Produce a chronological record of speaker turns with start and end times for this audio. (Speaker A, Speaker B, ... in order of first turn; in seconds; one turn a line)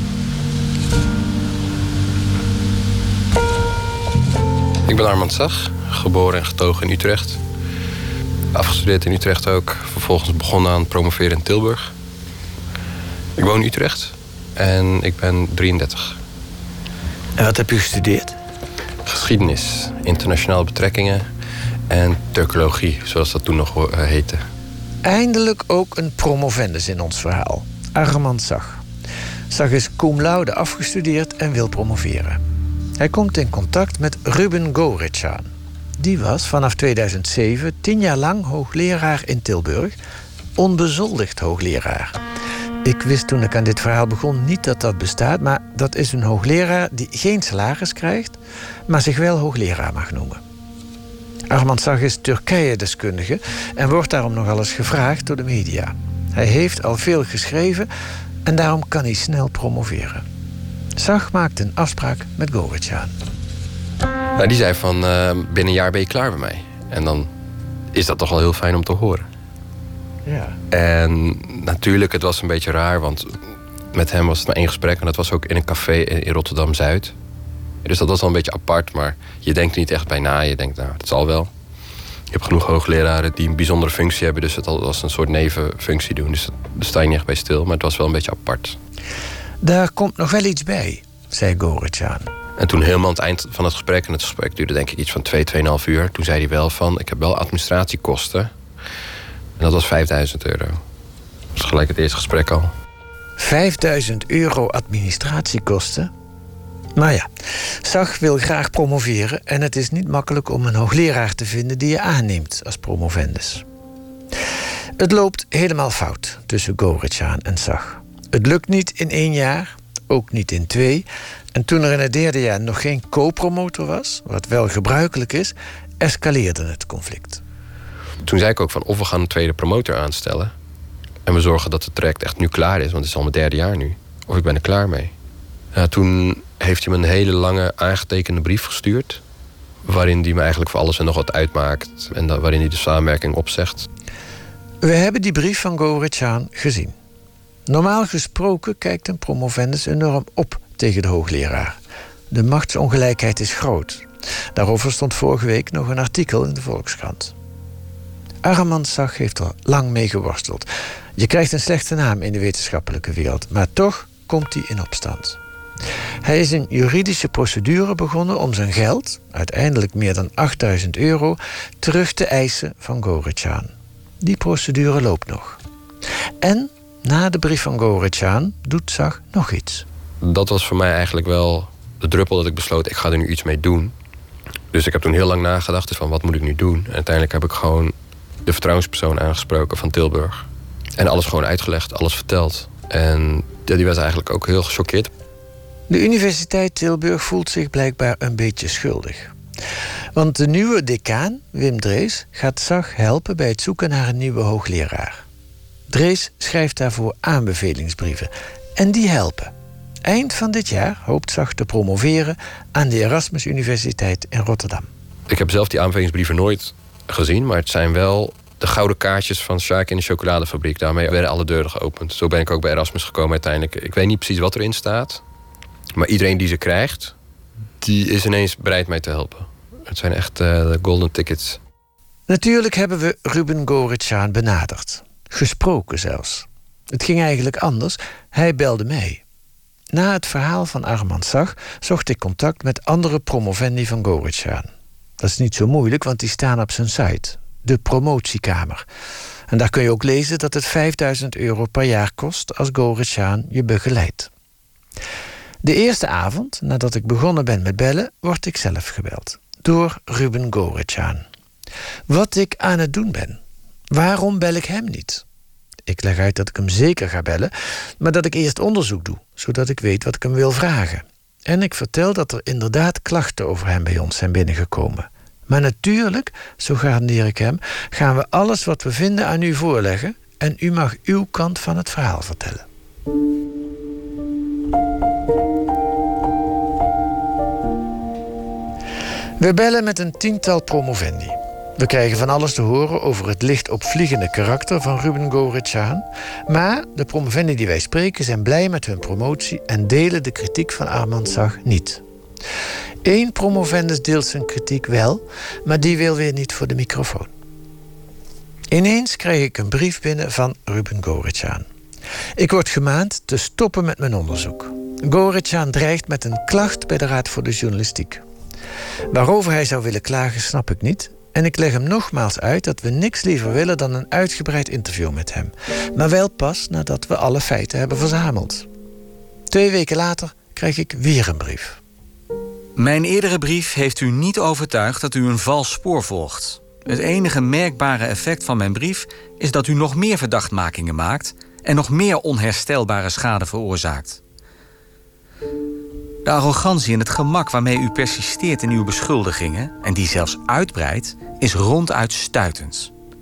Speaker A: 4.8-7.4
Speaker A: 8.5-11.9
Speaker A: 13.4-16.2
Speaker B: 17.4-18.4
Speaker A: 19.0-21.2
Speaker A: 21.9-24.4
Speaker B: 25.0-28.8
Speaker B: 29.5-32.4
Speaker B: 33.0-40.0
Speaker B: 40.5-42.2
Speaker B: 42.8-50.4
Speaker B: 51.5-57.9
Speaker B: 58.4-60.2
Speaker B: 61.0-63.1
Speaker A: 64.3-67.3
Speaker A: 67.9-69.2
Speaker B: 70.2-70.6
Speaker A: 70.7-73.4
Speaker A: 73.9-77.1
Speaker A: 77.8-81.5
Speaker A: 82.3-88.8
Speaker B: 89.6-92.3
Speaker A: 92.6-98.5
Speaker A: 99.6-100.8
Speaker A: 101.5-102.7
Speaker B: 103.4-106.1
Speaker B: 106.9-113.6
Speaker B: 115.0-127.4
Speaker A: 128.2-130.5
Speaker A: 131.2-135.1
Speaker A: 135.7-139.2
Speaker A: 139.8-143.9
Speaker B: 144.8-146.9
Speaker B: 147.7-151.8
Speaker B: 152.3-157.3
Speaker B: 158.4-165.4
Speaker B: 166.2-175.6
Speaker B: 176.4-179.8
Speaker A: 180.2-183.9
Speaker A: 184.7-187.9
Speaker A: 188.4-190.4
Speaker A: 191.0-195.1
Speaker B: 195.9-199.3
Speaker B: 200.1-205.2
Speaker B: 205.9-209.5
Speaker B: 210.0-214.9
Speaker A: 215.3-225.2
Speaker A: 225.9-227.1
Speaker A: 227.8-231.6
Speaker B: 232.3-239.2
Speaker B: 239.9-244.7
Speaker B: 245.2-248.8
Speaker B: 249.5-254.3
Speaker B: 255.6-261.2
Speaker B: 262.1-263.4
Speaker B: 263.9-265.2
Speaker B: 265.9-282.6
Speaker B: 289.4-302.0
Speaker B: 303.0-307.3
Speaker B: 308.7-311.7
Speaker B: 312.4-318.2
Speaker B: 319.1-328.7
Speaker B: 329.5-331.8
Speaker C: 332.8-344.2
Speaker C: 346.2-352.9